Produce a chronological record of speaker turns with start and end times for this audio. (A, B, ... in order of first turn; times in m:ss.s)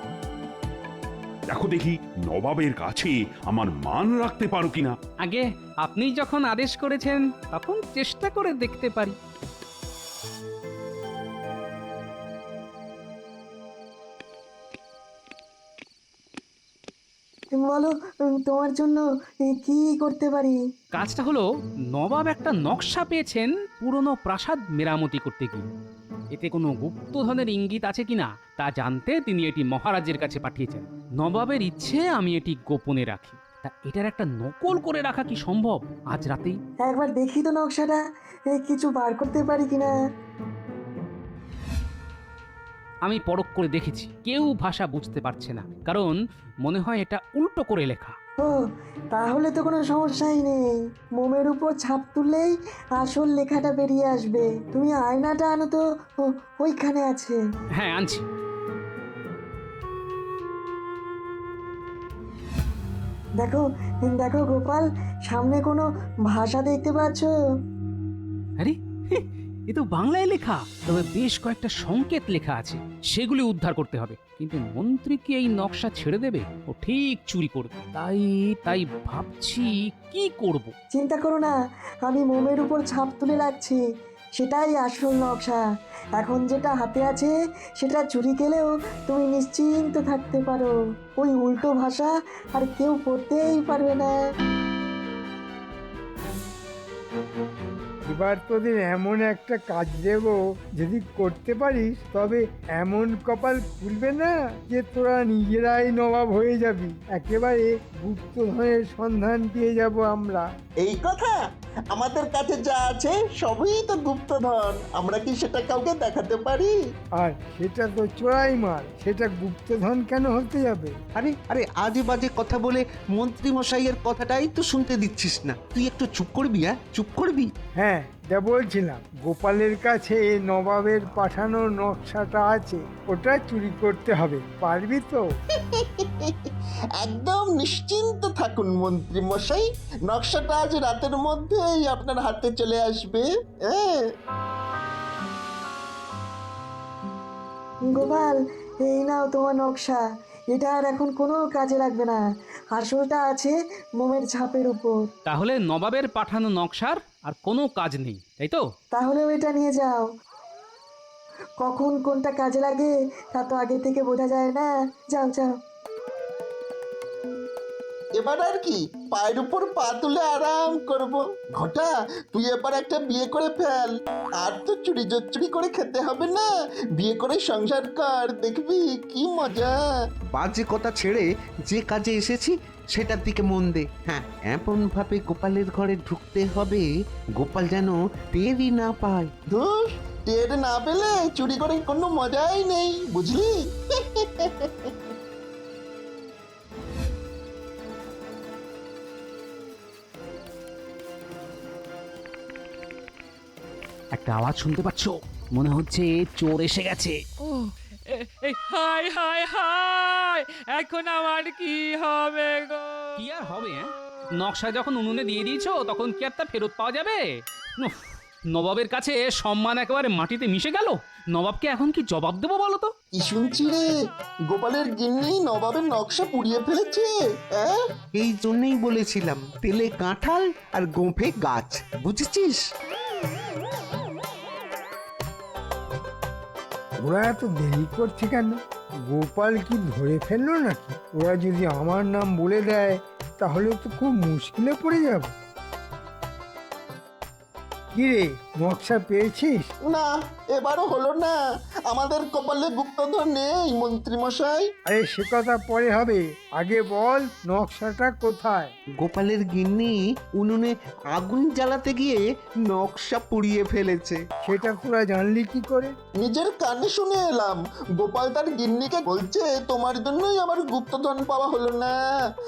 0:01.5-0:05.0 A
0:05.2-0:09.2 B
0:17.5-0:20.6 C
0:20.9-0:25.6 B
0:26.3-0:36.6 B
0:36.8-0:39.9 C
0:43.0-0:48.2 B
0:48.4-0:57.4 C
0:57.8-0:58.2 B
1:03.4-1:07.3 C
1:08.6-1:20.7 B
1:20.9-1:23.8 C
1:24.4-1:25.6 C
1:26.2-1:34.2 C
1:38.1-1:50.5 D
1:50.8-1:51.4 E
1:51.9-1:56.7 E
1:57.2-2:00.9 D
2:01.1-2:07.5 F
2:07.8-2:15.2 D
2:15.7-2:16.3 E
2:17.0-2:24.0 E
2:27.8-2:35.1 C
2:35.3-2:38.6 B
2:38.9-2:40.1 C
2:41.6-2:45.5 C
2:48.2-2:56.4 E
2:57.0-2:59.7 E
3:00.3-3:06.9 F
3:07.4-3:09.3 F
3:09.5-3:13.5 E
3:14.2-3:14.9 E
3:24.1-3:27.2 B
3:27.4-3:33.1 G
3:33.2-3:33.9 B
3:34.4-3:37.2 B
3:38.5-3:42.9 B
3:43.2-3:43.9 E
3:44.5-3:47.8 E
3:48.1-3:52.6 F
3:57.0-3:58.6 D
3:59.1-4:05.3 D
4:07.9-4:09.7 D
4:09.9-4:11.4 E
4:11.9-4:14.6 E
4:14.9-4:18.7 D
4:19.0-4:24.2 F
4:24.4-4:25.9 D
4:26.2-4:31.9 E